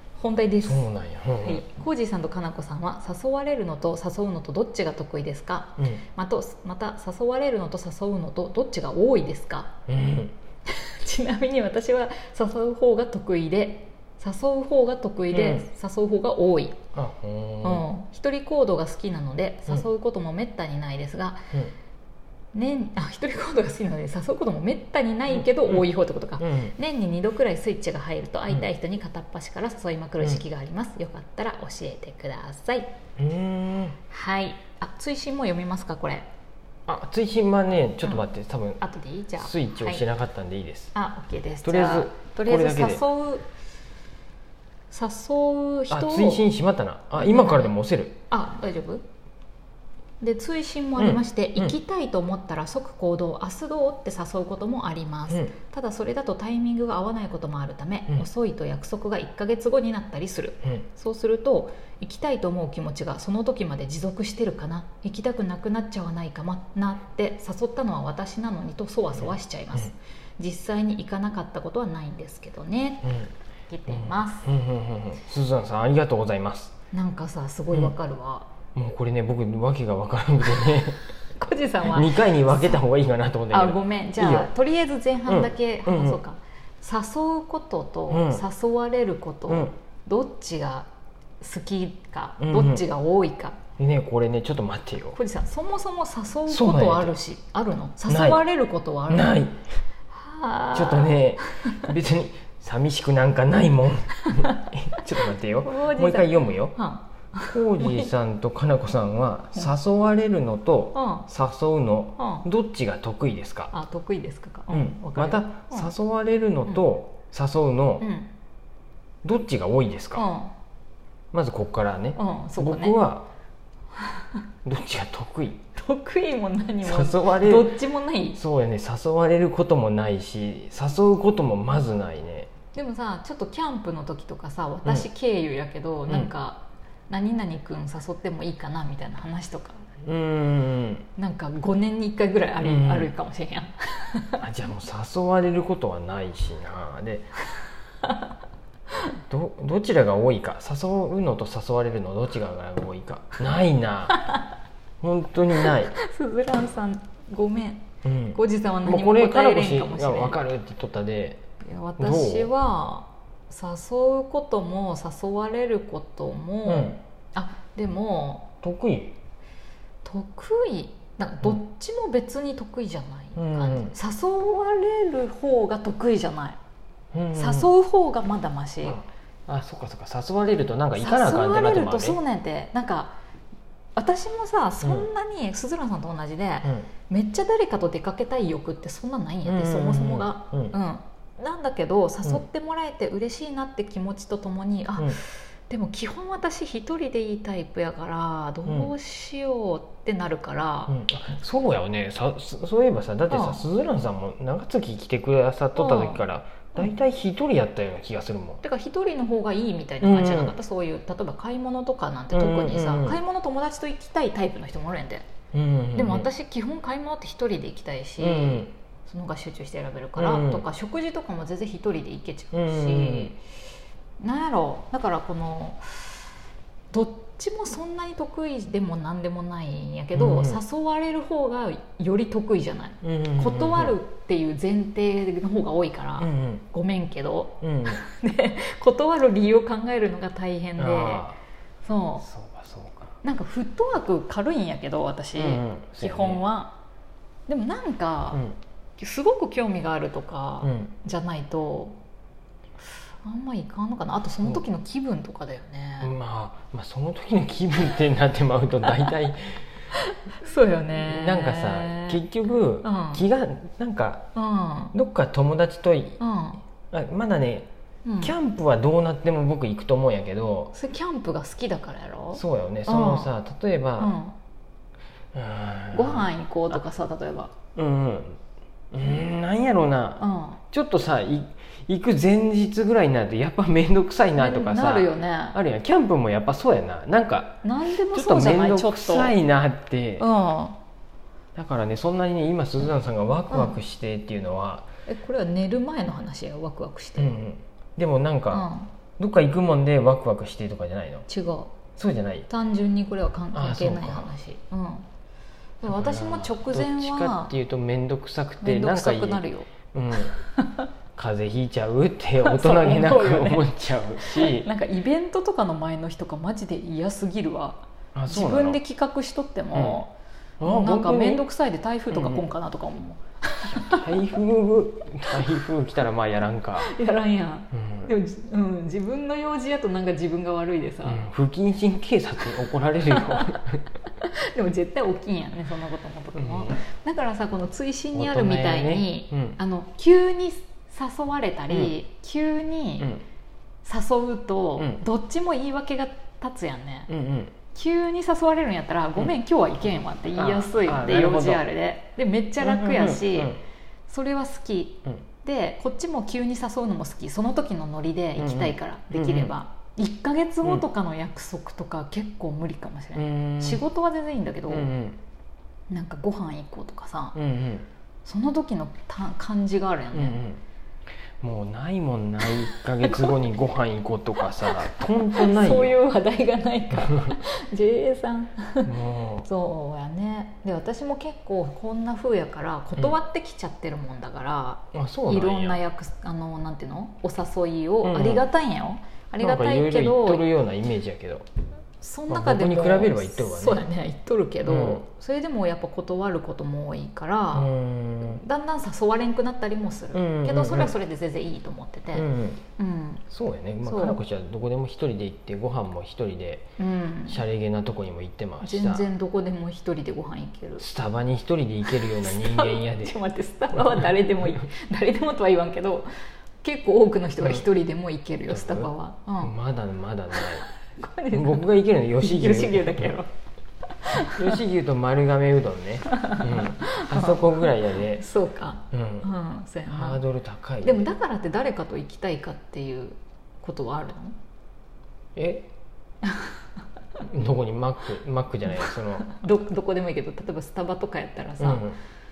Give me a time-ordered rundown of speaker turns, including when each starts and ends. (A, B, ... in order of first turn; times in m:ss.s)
0:00.2-0:09.7 A
0:00.6-0:01.6 B
0:09.9-0:10.3 B
0:10.7-0:16.8 A
0:15.3-0:15.7 B
0:17.0-0:17.8 B
0:17.6-0:21.5 A
0:22.5-0:32.9 A
0:25.4-0:25.8 B
0:26.4-0:26.7 B
0:33.2-0:34.0 B
0:34.1-0:36.3 A
0:36.9-0:38.8 B
0:38.8-0:40.0 A
0:39.4-0:40.9 B
0:40.9-0:43.5 A
0:41.6-0:43.0 B
0:44.9-0:46.5 A
0:45.9-0:48.2 B
0:47.2-0:47.7 A
0:48.3-0:49.0 A
0:50.2-1:13.1 A
0:51.0-0:51.8 B
0:55.3-0:55.6 B
1:09.1-1:09.8 B
1:13.0-1:13.3 B
1:13.7-1:14.4 A
1:13.9-1:16.8 B
1:16.9-1:18.5 A
1:18.8-1:21.0 B
1:21.4-1:22.8 A
1:21.8-1:24.5 B
1:23.5-1:30.9 A
1:25.3-1:26.2 B
1:28.1-1:28.4 B
1:31.4-1:33.6 A
1:32.4-1:32.8 B
1:33.8-1:35.2 B
1:35.1-1:39.4 A
1:36.5-1:37.2 B
1:38.1-1:38.4 B
1:39.1-1:39.6 B
1:40.1-1:41.9 A
1:40.7-1:46.8 B
1:44.3-1:48.1 A
1:47.5-1:53.7 B
1:50.9-1:51.3 A
1:52.2-1:52.5 A
1:53.7-1:55.9 A
1:54.7-1:58.1 B
1:58.0-1:58.3 A
1:59.2-2:00.3 B
2:00.1-2:00.5 A
2:01.3-2:03.3 B
2:02.1-2:03.0 A
2:04.6-2:05.6 B
2:05.7-2:08.4 A
2:06.8-2:07.7 B
2:08.3-2:12.5 B
2:12.7-2:19.8 A
2:20.0-2:21.1 B
2:21.2-2:24.4 A
2:22.6-2:23.1 B
2:24.4-2:27.3 B
2:28.0-2:28.3 A
2:29.3-2:34.2 B
2:35.0-2:35.9 B
2:35.5-2:40.4 A
2:38.0-2:41.4 B
2:41.6-2:48.5 A
2:42.0-2:42.5 B
2:46.6-2:47.0 B
2:48.6-2:49.2 B
2:50.0-2:56.6 A
2:53.3-2:54.0 B
2:57.1-2:57.7 B
2:57.3-2:59.0 A
2:58.8-3:02.2 B
3:01.0-3:03.1 A
3:04.0-3:20.9 A
3:04.8-3:05.1 B
3:09.4-3:10.7 B
3:18.7-3:18.9 B
3:20.9-3:28.6 B
3:23.3-3:23.6 A
3:25.7-3:26.2 A
3:28.6-3:35.3 A
3:30.0-3:30.5 B
3:32.3-3:33.2 B
3:35.5-3:36.3 B
3:35.9-3:43.4 A
3:38.2-3:38.7 B
3:40.2-3:40.6 B
3:42.5-3:43.3 B
3:44.2-3:46.3 A
3:46.9-4:01.2 A
3:50.1-3:50.6 B
3:53.0-3:54.0 B
3:56.2-3:56.6 B
3:57.6-3:58.0 B
4:00.8-4:01.4 B
4:01.8-4:02.2 A
4:02.2-4:03.2 B
4:03.2-4:06.8 A
4:05.3-4:06.4 B
4:07.5-4:08.4 A
4:09.0-4:12.0 A
4:10.6-4:10.9 B
4:13.2-4:16.1 A
4:16.0-4:19.7 B
4:19.9-4:22.2 A
4:20.9-4:24.3 B
4:22.8-4:23.2 A
4:24.4-4:24.9 A
4:24.9-4:26.2 B
4:26.2-4:26.6 A
4:26.9-4:27.7 B
4:28.0-4:28.3 A
4:28.2-4:30.7 B
4:30.7-4:33.3 A
4:32.3-4:34.1 B
4:34.0-4:34.4 A
4:35.3-4:36.8 B
4:35.9-4:37.6 A
4:37.8-4:38.4 B
4:38.9-4:50.2 B
4:40.2-4:40.6 A
4:44.4-4:45.6 A
4:47.6-4:49.4 A
4:50.2-4:50.8 A
4:51.6-4:54.9 B
4:53.5-4:53.8 A
4:55.1-4:57.4 A
4:57.2-4:58.6 B
4:58.5-4:58.9 A
4:59.2-5:01.2 B
5:01.3-5:01.8 A
5:02.0-5:02.5 B
5:02.5-5:05.1 A
5:03.5-5:04.3 B
5:05.8-5:07.5 A
5:05.8-5:10.3 B
5:08.6-5:10.9 A
5:11.2-5:14.7 B
5:12.4-5:20.1 A
5:18.2-5:18.8 B
5:19.7-5:20.0 B
5:20.6-5:21.5 B
5:20.6-5:24.1 A
5:22.1-5:22.4 B
5:23.7-5:26.9 B
5:26.8-5:31.2 A
5:27.7-5:28.1 B
5:31.0-5:33.8 B
5:33.1-5:33.6 A
5:34.2-5:43.2 A
5:36.4-5:36.8 B
5:38.1-5:39.6 B
5:41.7-5:41.9 B
5:43.8-5:47.1 A
5:44.8-5:45.0 B
5:47.1-5:47.6 B
5:47.7-6:04.9 A
5:50.4-5:51.6 B
5:52.6-5:53.6 B
5:58.4-5:59.5 B
6:03.2-6:03.8 B
6:04.7-6:05.2 B
6:05.9-6:07.4 A
6:07.4-6:07.9 B
6:08.2-6:10.4 A
6:10.1-6:10.6 B
6:11.4-6:16.0 B
6:12.7-6:13.3 A
6:14.6-6:18.9 A
6:17.1-6:17.4 B
6:18.8-6:19.5 B
6:19.4-6:30.4 A
6:24.9-6:25.8 B
6:28.0-6:28.4 B
6:29.4-6:31.4 B
6:32.0-6:37.7 A
6:32.3-6:33.9 B
6:34.6-6:35.0 B
6:37.5-6:38.4 B
6:38.2-6:42.2 A
6:40.1-6:40.9 B
6:42.1-6:42.6 B
6:42.8-6:43.2 A
6:43.3-6:46.7 B
6:43.8-6:44.2 A
6:46.8-6:47.4 A
6:47.3-6:49.1 B
6:48.6-6:50.8 A
6:50.8-6:53.2 B
6:51.9-6:56.1 A
6:53.8-6:54.1 B
6:56.6-6:59.5 A
6:58.5-7:00.7 B
7:00.4-7:03.3 A
7:01.3-7:03.2 B
7:04.0-7:04.6 A
7:04.4-7:08.2 B
7:06.1-7:10.2 A
7:08.9-7:09.3 B
7:09.9-7:11.1 B
7:10.8-7:14.4 A
7:15.4-7:15.7 B
7:17.2-7:19.4 B
7:19.3-7:21.9 A
7:21.6-7:22.0 B